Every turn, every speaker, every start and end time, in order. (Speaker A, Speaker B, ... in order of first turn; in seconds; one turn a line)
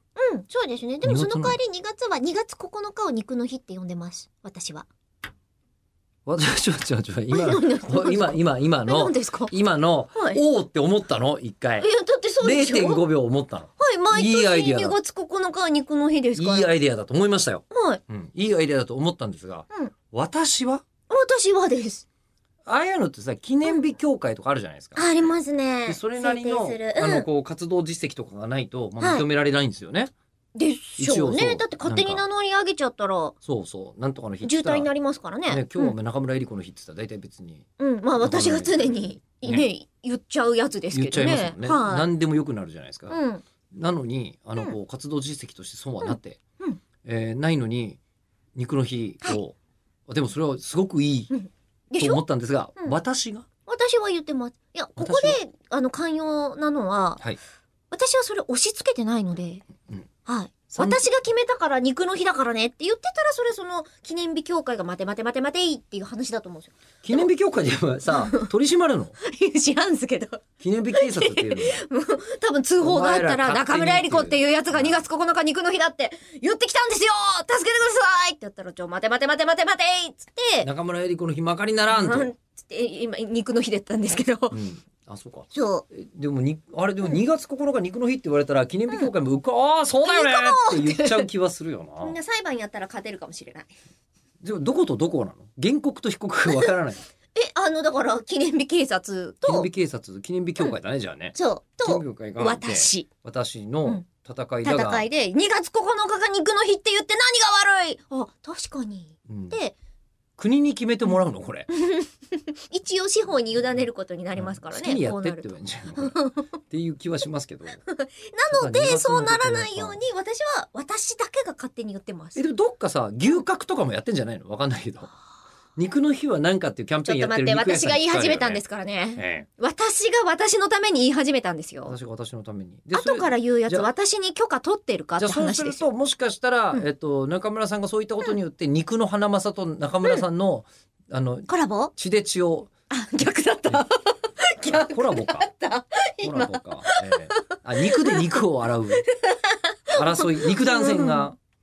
Speaker A: 0.1-4.9
Speaker B: 1.0-1.6
Speaker B: 6.2-11.9
Speaker A: 7.3-9.5
Speaker A: 10.1-10.4
Speaker A: 11.8-13.0
Speaker B: 12.4-14.9
Speaker A: 13.8-16.7
Speaker B: 16.4-20.8
Speaker A: 17.7-18.0
Speaker A: 21.1-22.0
Speaker B: 22.6-25.3
Speaker A: 24.9-27.3
Speaker B: 25.9-30.1
Speaker A: 30.5-33.3
Speaker B: 31.0-32.2
Speaker B: 33.4-34.9
Speaker A: 34.4-35.9
Speaker B: 35.5-37.6
Speaker A: 37.8-42.1
Speaker B: 38.2-39.7
Speaker B: 40.9-43.2
Speaker A: 43.1-43.4
Speaker B: 43.7-46.4
Speaker A: 46.0-46.8
Speaker B: 47.0-48.0
Speaker B: 48.5-49.5
Speaker B: 50.1-51.3
Speaker A: 51.3-52.2
Speaker B: 52.0-53.5
Speaker A: 53.7-57.2
Speaker B: 55.0-55.4
Speaker A: 57.9-59.6
Speaker A: 60.2-67.2
Speaker B: 60.7-61.0
Speaker B: 67.0-69.2
Speaker A: 68.1-68.5
Speaker A: 69.2-80.7
Speaker B: 70.6-71.8
Speaker B: 72.8-75.0
Speaker B: 80.6-82.3
Speaker A: 81.9-84.5
Speaker B: 84.5-92.2
Speaker A: 85.5-85.8
Speaker A: 90.0-91.3
Speaker A: 92.0-93.7
Speaker B: 94.4-97.0
Speaker A: 97.3-99.7
Speaker B: 99.4-105.1
Speaker A: 101.3-103.1
Speaker A: 104.6-109.7
Speaker B: 109.3-109.6
Speaker B: 110.4-111.7
Speaker A: 111.7-116.5
Speaker B: 114.3-117.8
Speaker A: 117.8-122.4
Speaker B: 118.5-120.0
Speaker B: 122.3-125.1
Speaker B: 125.8-128.6
Speaker A: 127.0-131.9
Speaker B: 129.2-129.5
Speaker B: 131.8-133.9
Speaker A: 132.9-135.8
Speaker B: 135.2-142.7
Speaker A: 141.5-141.9
Speaker A: 142.9-148.4
Speaker B: 144.6-145.5
Speaker B: 146.2-149.0
Speaker A: 148.9-151.3
Speaker B: 149.9-151.4